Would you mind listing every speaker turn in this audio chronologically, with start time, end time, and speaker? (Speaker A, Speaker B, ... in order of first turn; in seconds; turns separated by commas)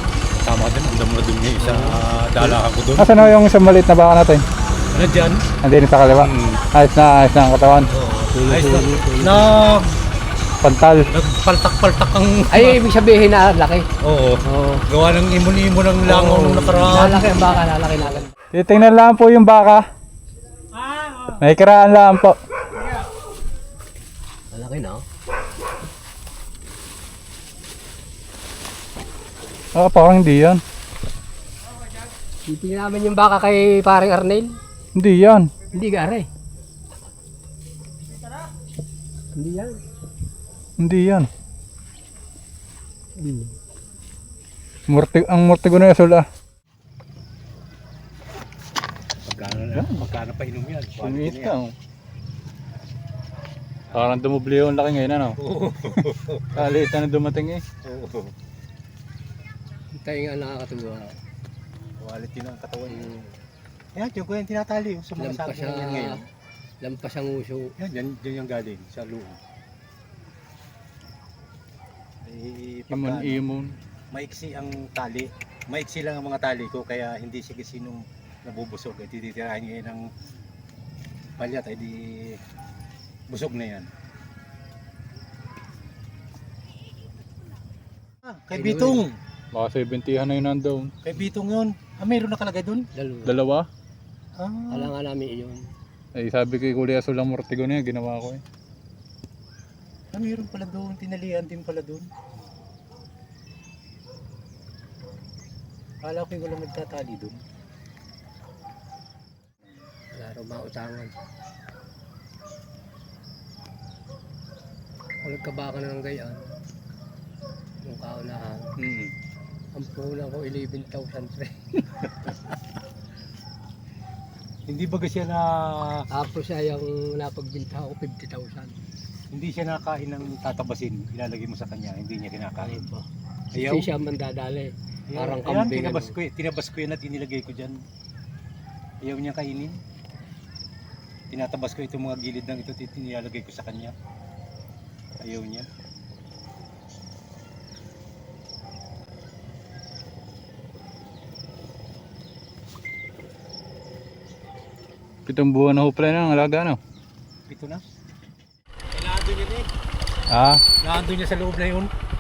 Speaker A: 0.5-3.3, Speaker B: 1.6-2.6, Speaker C: 3.0-4.4, Speaker A: 4.9-5.4, Speaker C: 5.6-7.9, Speaker A: 6.2-6.6, Speaker A: 7.9-9.9, Speaker B: 8.3-9.6, Speaker C: 10.6-11.1, Speaker A: 11.1-12.8, Speaker B: 12.5-13.9, Speaker A: 14.0-17.6, Speaker B: 14.4-14.8, Speaker B: 16.0-18.3, Speaker C: 18.5-19.8, Speaker A: 21.0-21.3, Speaker C: 21.4-22.4, Speaker B: 24.5-25.0, Speaker C: 29.8-30.6, Speaker B: 32.5-34.6, Speaker C: 35.0-35.5, Speaker B: 35.7-36.3, Speaker B: 39.4-39.8, Speaker C: 40.8-41.3, Speaker B: 43.2-43.5, Speaker C: 44.9-46.3, Speaker A: 49.2-51.5, Speaker C: 49.7-50.0, Speaker C: 51.0-51.7, Speaker C: 53.9-55.4, Speaker A: 55.4-56.8, Speaker C: 56.5-57.6, Speaker A: 57.8-58.3, Speaker B: 60.0-61.2, Speaker A: 62.0-63.1, Speaker B: 62.9-63.3, Speaker A: 64.0-66.2, Speaker B: 65.2-66.2, Speaker B: 66.8-67.7, Speaker A: 67.8-69.4, Speaker A: 72.2-73.4, Speaker C: 72.9-73.7, Speaker A: 74.1-80.1, Speaker A: 81.4-82.4, Speaker A: 83.3-83.9, Speaker A: 88.3-89.2, Speaker B: 88.5-89.0, Speaker C: 89.5-90.9, Speaker A: 91.0-92.9, Speaker B: 93.0-93.3, Speaker C: 93.2-93.7, Speaker A: 94.4-94.9, Speaker B: 94.7-95.7, Speaker C: 96.2-98.4, Speaker A: 100.1-102.1, Speaker A: 106.0-107.4, Speaker B: 110.2-111.2, Speaker B: 115.2-116.5, Speaker B: 117.8-118.8, Speaker A: 118.8-119.1, Speaker B: 119.8-122.1, Speaker A: 124.7-126.0, Speaker B: 126.1-128.8, Speaker A: 129.3-132.9, Speaker B: 132.6-136.2, Speaker A: 133.6-133.9, Speaker A: 135.1-137.8, Speaker A: 139.0-139.7, Speaker A: 141.3-143.9, Speaker A: 145.2-145.7, Speaker C: 155.3-156.8, Speaker A: 157.5-157.8, Speaker A: 158.9-159.7, Speaker C: 160.3-160.6, Speaker A: 160.8-161.9